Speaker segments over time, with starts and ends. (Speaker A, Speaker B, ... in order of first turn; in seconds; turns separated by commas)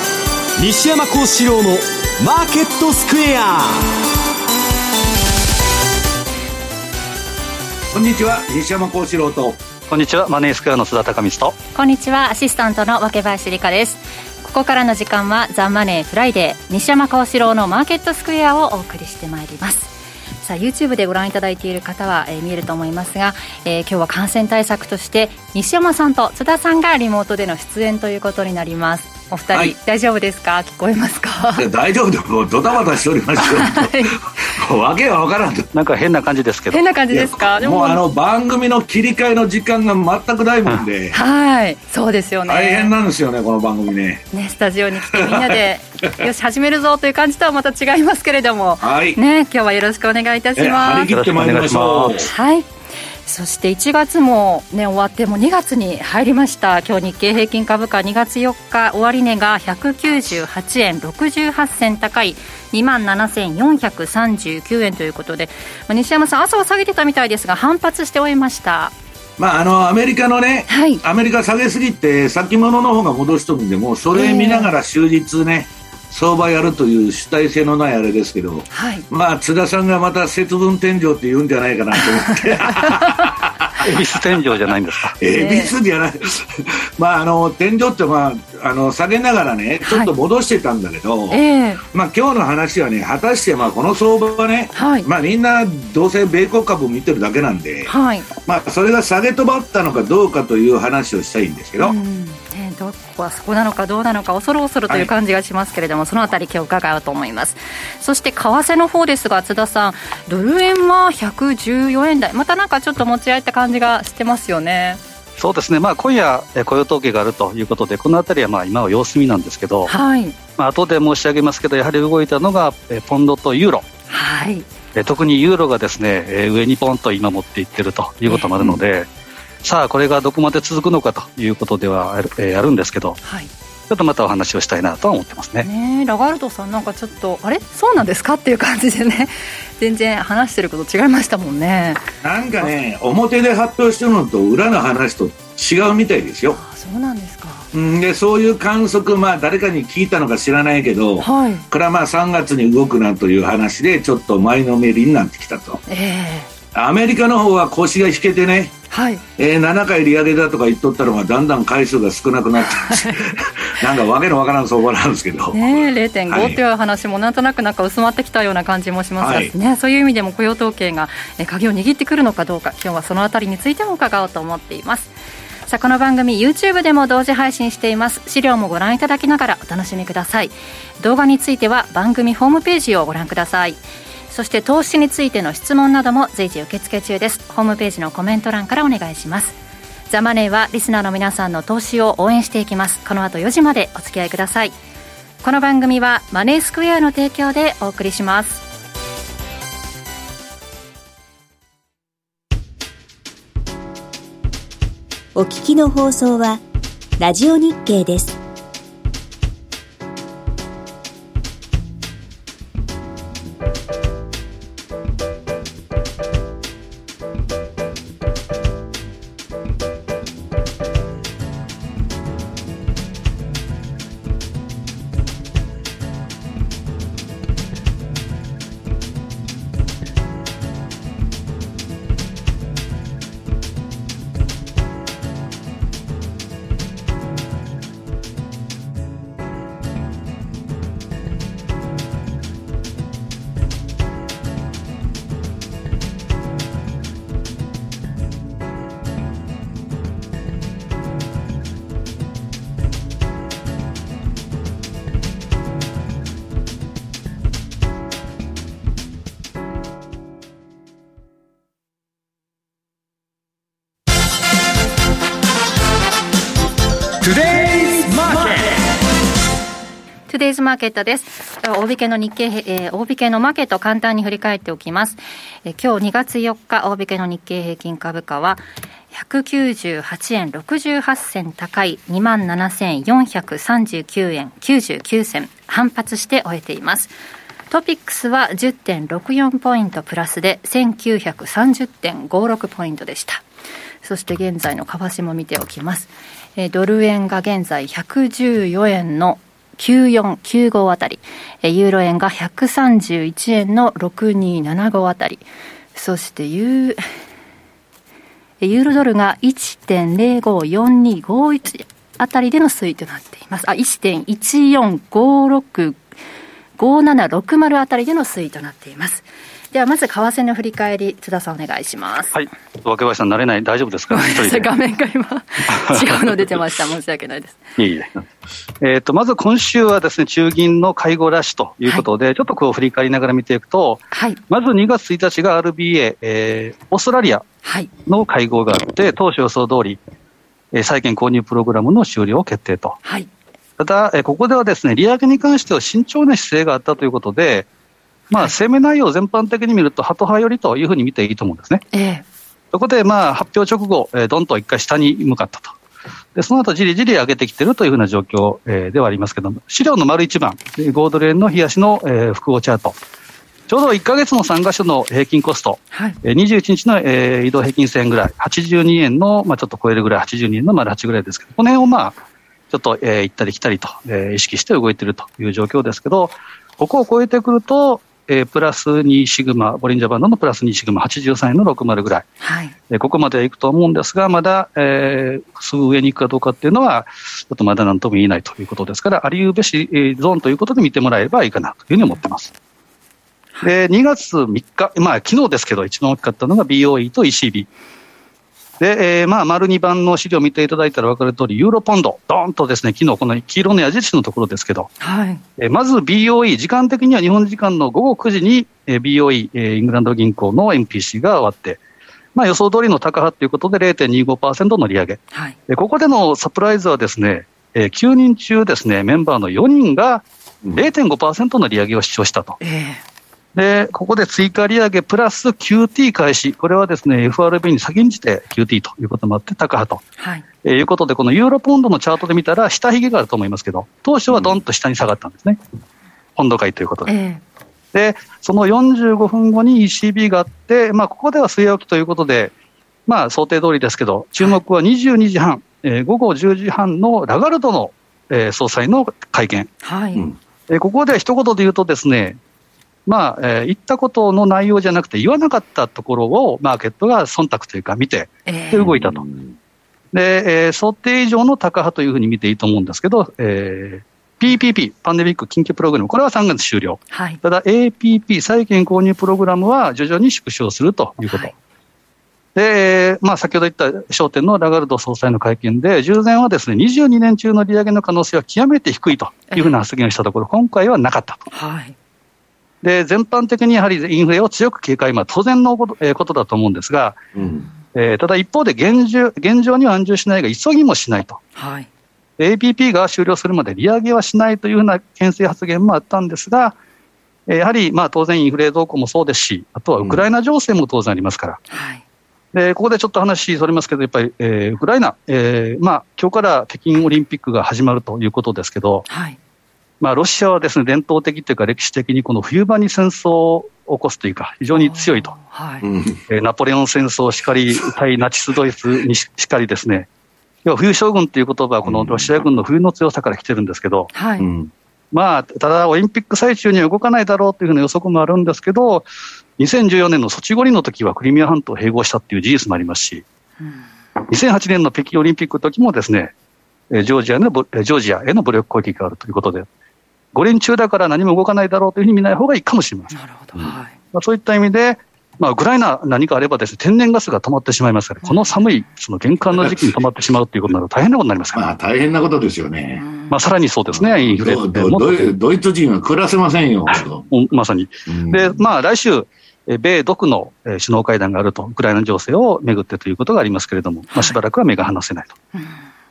Speaker A: 0.6-3.9, Speaker B: 7.9-9.6, Speaker C: 9.9-11.6, Speaker D: 11.8-31.7, Speaker B: 31.6-35.7, Speaker D: 33.4-34.2, Speaker C: 35.7-36.8, Speaker D: 36.7-38.0, Speaker B: 37.1-41.2, Speaker D: 41.1-43.0, Speaker B: 42.5-44.2, Speaker D: 44.3-51.1, Speaker B: 45.1-46.3, Speaker B: 48.8-49.2, Speaker B: 50.6-52.3, Speaker C: 51.1-52.2, Speaker D: 52.1-52.7, Speaker D: 53.3-68.9, Speaker B: 69.4-84.3, Speaker D: 70.7-71.0, Speaker D: 74.1-74.7, Speaker D: 78.7-79.0, Speaker D: 82.3-83.3, Speaker C: 83.8-85.2, Speaker B: 85.2-102.0, Speaker D: 85.3-85.8, Speaker D: 89.8-90.1, Speaker D: 91.3-91.8, Speaker D: 94.7-95.1, Speaker D: 97.9-98.3, Speaker D: 101.8-115.0, Speaker C: 115.4-119.9, Speaker D: 119.9-120.4, Speaker C: 120.6-123.8, Speaker D: 124.1-124.7, Speaker C: 125.0-129.1, Speaker C: 129.6-133.2, Speaker D: 133.2-133.5, Speaker C: 133.9-135.7, Speaker D: 135.6-142.0, Speaker B: 142.2-146.6, Speaker D: 146.5-147.7, Speaker B: 147.7-155.8, Speaker D: 151.2-151.7, Speaker D: 155.9-156.5, Speaker B: 156.7-158.8, Speaker D: 158.9-159.2, Speaker B: 159.4-166.6, Speaker D: 162.7-163.3, Speaker D: 165.5-175.1, Speaker B: 169.2-169.5, Speaker D: 175.7-189.6, Speaker D: 190.1-194.8, Speaker D: 195.4-198.6, Speaker E: 205.3-206.6, Speaker E: 207.2-208.4, Speaker A: 267.2-268.6, Speaker D: 270.3-287.1, Speaker D: 287.7-293.4, Speaker D: 294.0-307.0, Speaker D: 308.6-316.0, Speaker D: 316.8-322.4, Speaker C: 322.3-324.7, Speaker D: 324.1-327.6, Speaker C: 325.7-326.3, Speaker C: 327.8-328.2, Speaker C: 328.8-337.4, Speaker D: 334.1-334.4, Speaker D: 337.6-337.9, Speaker C: 338.1-340.0, Speaker C: 340.7-343.0, Speaker C: 343.8-347.7, Speaker C: 348.3-351.8, Speaker D: 351.9-352.2, Speaker C: 352.7-355.8, Speaker C: 356.4-363.0, Speaker C: 363.7-372.2, Speaker D: 365.9-366.2, Speaker C: 372.7-382.3, Speaker D: 382.4-382.7, Speaker C: 382.9-392.5, Speaker C: 393.6-397.7, Speaker C: 398.8-404.9, Speaker D: 405.0-405.4, Speaker C: 405.6-411.8, Speaker C: 412.4-422.6, Speaker D: 422.6-423.0, Speaker C: 423.6-430.0, Speaker D: 430.2-430.4, Speaker C: 430.6-435.6, Speaker C: 436.4-437.1, Speaker D: 437.1-437.4, Speaker C: 437.9-442.5, Speaker C: 443.1-449.7, Speaker D: 449.8-450.2, Speaker C: 450.7-452.4, Speaker C: 453.1-459.2, Speaker D: 458.5-458.9, Speaker B: 458.8-459.5, Speaker C: 460.1-471.5, Speaker D: 467.1-467.4, Speaker D: 471.3-471.5, Speaker C: 472.6-481.4, Speaker D: 481.5-481.9, Speaker C: 482.8-487.2, Speaker B: 487.4-487.7, Speaker C: 487.9-491.4, Speaker D: 491.6-491.9, Speaker C: 492.4-496.8, Speaker C: 497.5-501.6, Speaker B: 500.0-500.3, Speaker D: 501.7-502.0, Speaker C: 502.5-509.1, Speaker D: 509.1-509.4, Speaker C: 510.0-515.3, Speaker D: 514.7-515.9, Speaker B: 515.8-516.2, Speaker C: 516.3-520.1, Speaker C: 520.6-524.1, Speaker B: 521.8-522.3, Speaker D: 524.1-524.5, Speaker B: 524.4-524.7, Speaker C: 525.1-529.1, Speaker C: 529.6-533.2, Speaker C: 534.3-536.3, Speaker C: 536.9-539.7, Speaker C: 540.3-543.1, Speaker D: 543.1-543.9, Speaker C: 544.1-551.7, Speaker D: 548.2-548.8, Speaker B: 549.6-550.0, Speaker B: 551.5-553.1, Speaker D: 553.0-553.4, Speaker C: 553.3-555.4, Speaker B: 553.9-557.3, Speaker C: 557.3-565.4, Speaker B: 558.1-558.6, Speaker D: 564.1-564.4